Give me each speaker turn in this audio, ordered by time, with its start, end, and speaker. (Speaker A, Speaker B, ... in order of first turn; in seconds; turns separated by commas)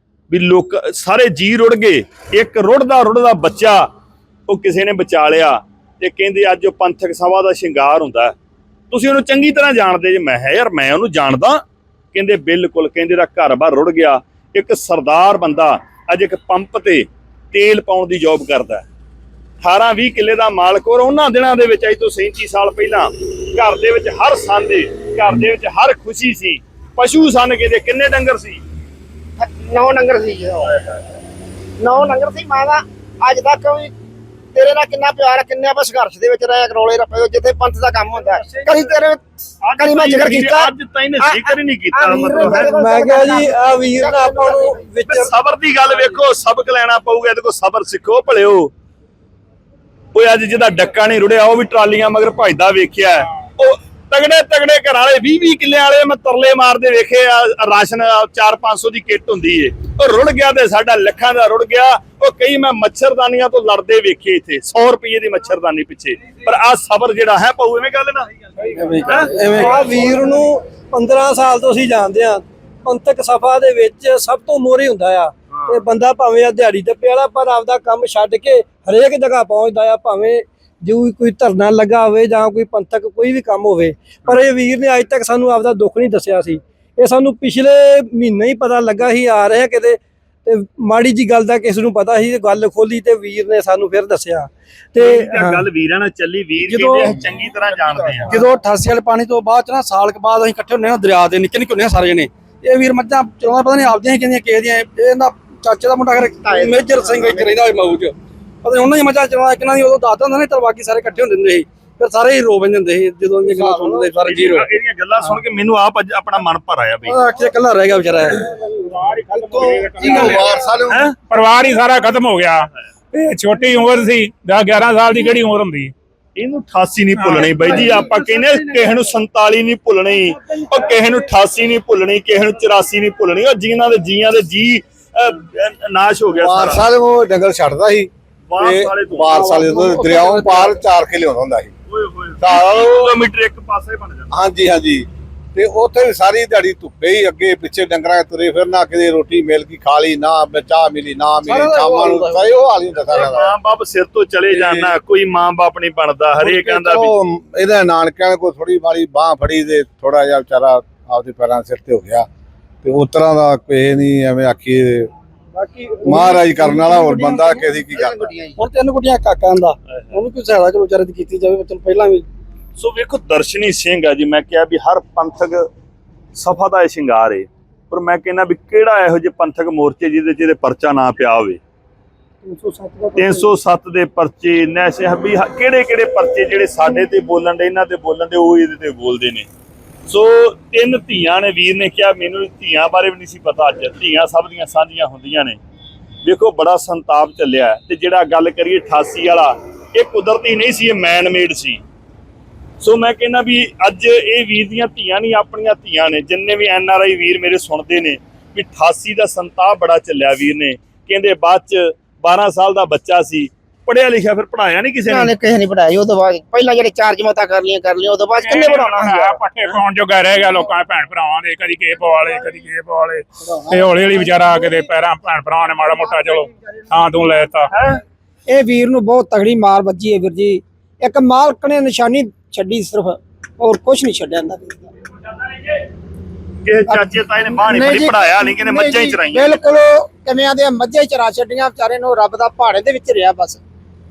Speaker A: 0.3-3.9, Speaker A: 4.5-8.3, Speaker A: 8.9-18.9, Speaker A: 19.6-28.6, Speaker B: 29.4-30.8, Speaker B: 31.8-33.9, Speaker B: 34.5-39.2, Speaker A: 39.6-42.7, Speaker B: 39.8-44.8, Speaker C: 42.3-45.3, Speaker A: 45.1-48.7, Speaker A: 50.1-68.3, Speaker D: 68.7-69.9, Speaker A: 69.0-69.8, Speaker C: 69.2-95.6, Speaker A: 95.0-98.4, Speaker D: 96.6-97.1, Speaker D: 98.3-114.7, Speaker B: 106.4-107.5, Speaker A: 114.2-117.2, Speaker D: 117.0-118.5, Speaker E: 118.7-125.9, Speaker F: 119.5-121.1, Speaker A: 126.3-136.8, Speaker E: 127.2-127.7, Speaker F: 136.3-141.7, Speaker A: 138.5-139.5, Speaker D: 139.5-140.7, Speaker A: 141.9-144.3, Speaker F: 142.4-143.2, Speaker F: 144.3-153.5, Speaker D: 151.4-152.4, Speaker A: 153.1-157.1, Speaker F: 154.5-154.9, Speaker F: 156.4-162.3, Speaker F: 162.8-165.1, Speaker C: 165.5-166.4, Speaker F: 166.0-168.3, Speaker D: 166.7-167.5, Speaker B: 167.9-168.6, Speaker D: 168.6-172.2, Speaker A: 172.8-175.7, Speaker A: 176.3-181.6, Speaker C: 182.4-183.5, Speaker A: 183.2-189.5, Speaker A: 190.1-195.6, Speaker A: 196.2-201.8, Speaker A: 202.8-215.3, Speaker B: 215.1-219.4, Speaker E: 218.4-227.7, Speaker F: 223.4-224.4, Speaker A: 227.7-228.0, Speaker G: 228.5-234.8, Speaker A: 236.6-239.6, Speaker G: 236.9-243.6